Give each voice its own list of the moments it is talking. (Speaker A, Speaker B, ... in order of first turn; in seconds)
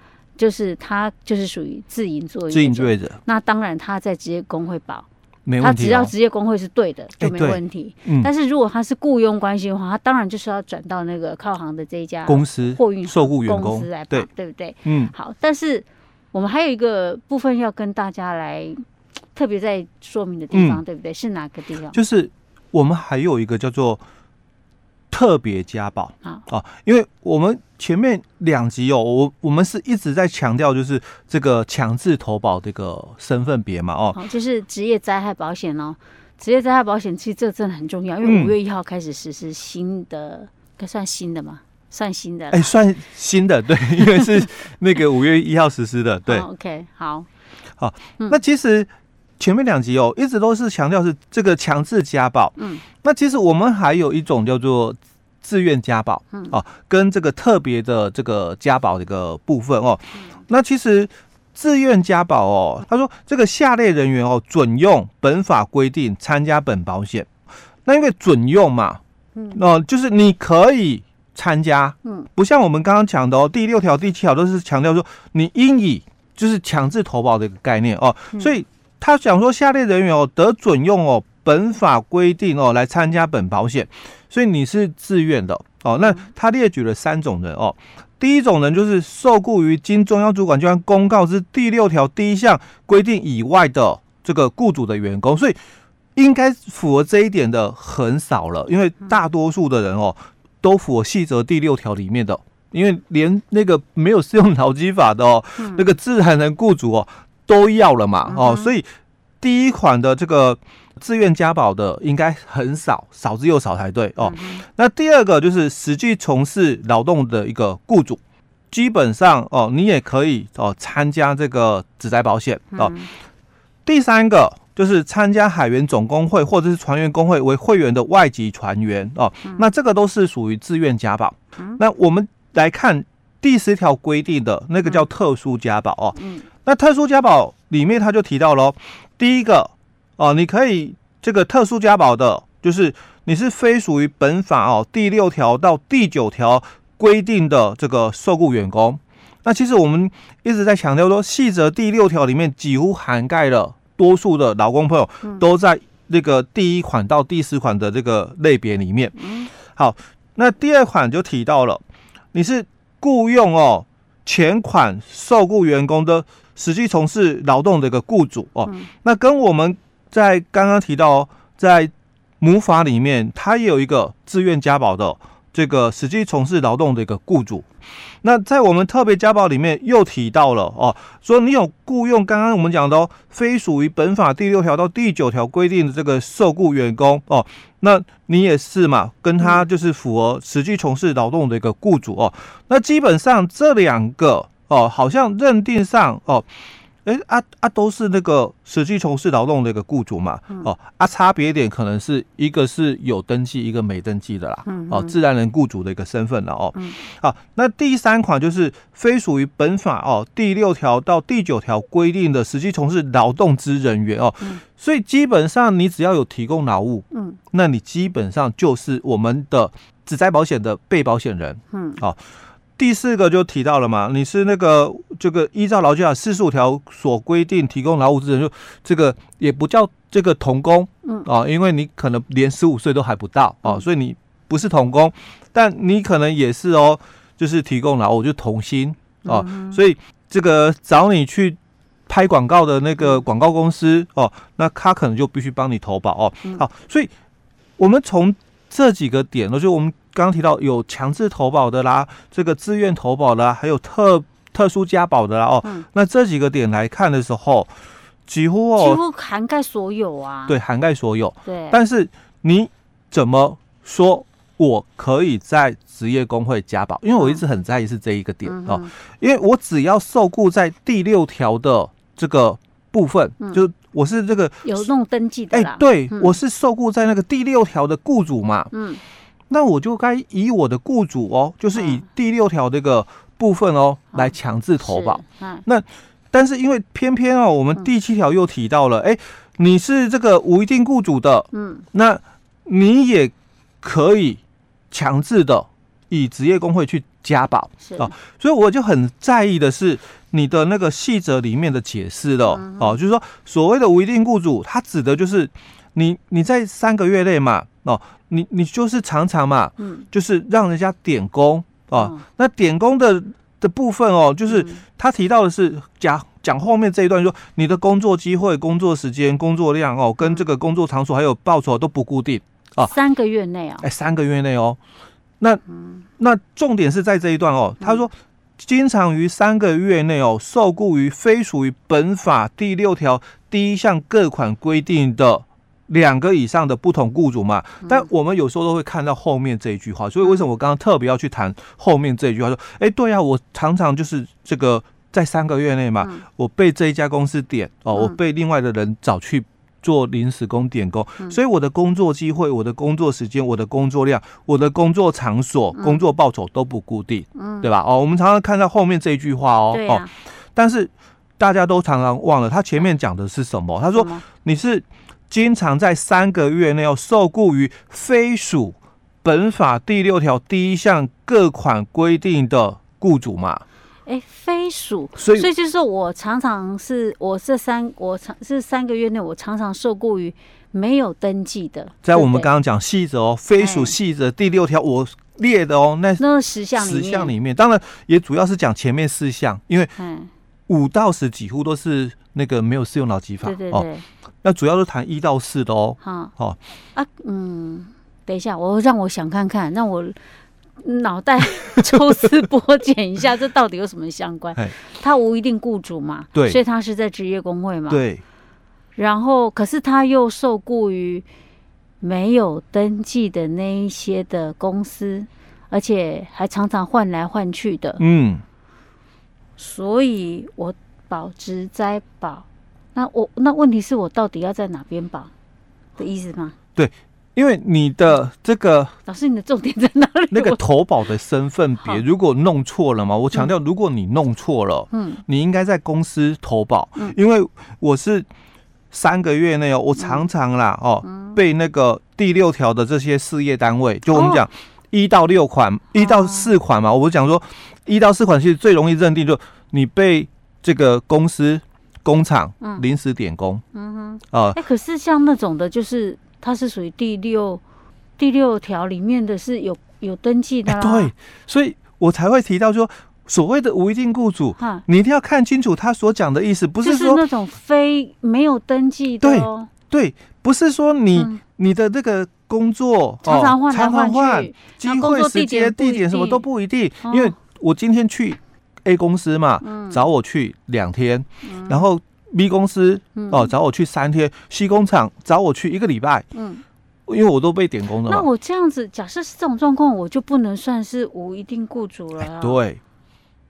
Speaker A: 0.4-5.0, 5.6-18.8, 19.3-22.0, 34.1-42.7, 46.3-47.3, 52.6-52.8, 105.6-105.8, 108.3-108.7, 114.2-114.6, 122.7-123.1, 136.2-136.4, 159.2-159.5, 204.6-205.2, 217.1-217.4, 221.7-222.0, 239.2-239.8, 258.8-260.6, 261.4-261.8, 267.2-267.4, 268.4-268.9, 274.6-276.4, 278.7-279.0, 281.7-282.0, 284.1-285.6, 291.5-291.9, 297.8-298.1, 302.5-303.0, 309.8-310.0, 311.9-312.2, 314.5-314.8, 322.8-323.9, 337.8-338.1, 355.7-356.0, 357.4-357.7, 359.7-360.1, 363.9-364.2, 374.1-382.5, 383.6-383.9, 386.2-387.3, 390.0-390.3, 393.4-394.0, 396.0-396.3, 396.9-400.2, 400.8-408.0, 408.9-411.2, 412.0-418.0, 419.6-425.3, 426.0-426.5, 429.1-430.6, 434.9-435.2, 440.0-440.2, 441.0-441.4, 444.1-444.4, 445.9-446.5, 453.7-457.6, 458.2-461.1, 464.6-464.8, 466.8-469.7, 473.2-476.4, 477.0-477.3, 479.6-480.0, 481.4-481.9, 483.1-483.5, 486.3-486.6, 488.0-492.6
Speaker B: 2.5-3.2, 5.5-6.1, 7.2-8.3, 12.2-14.3, 14.8-15.1, 20.5-20.8, 21.9-24.0, 25.1-34.2, 38.2-38.6, 42.5-46.5, 47.8-67.3, 67.8-69.0, 69.5-95.6, 96.2-108.9, 109.4-118.2, 118.7-122.9, 123.8-161.8, 162.3-177.7, 178.2-196.4, 197.0-222.2, 222.8-247.1, 247.8-257.7, 258.3-259.0, 260.5-274.9, 275.5-278.7, 279.5-294.4, 294.9-322.9, 323.8-324.8, 326.2-373.6, 375.1-375.5, 382.0-386.2, 386.8-389.9, 390.7-393.9, 394.4-396.6, 407.9-408.2, 418.0-418.4, 426.8-428.9, 430.3-438.3, 438.9-453.6, 454.3-454.6, 460.7-467.2, 469.2-486.2, 487.1-488.3, 492.2-492.8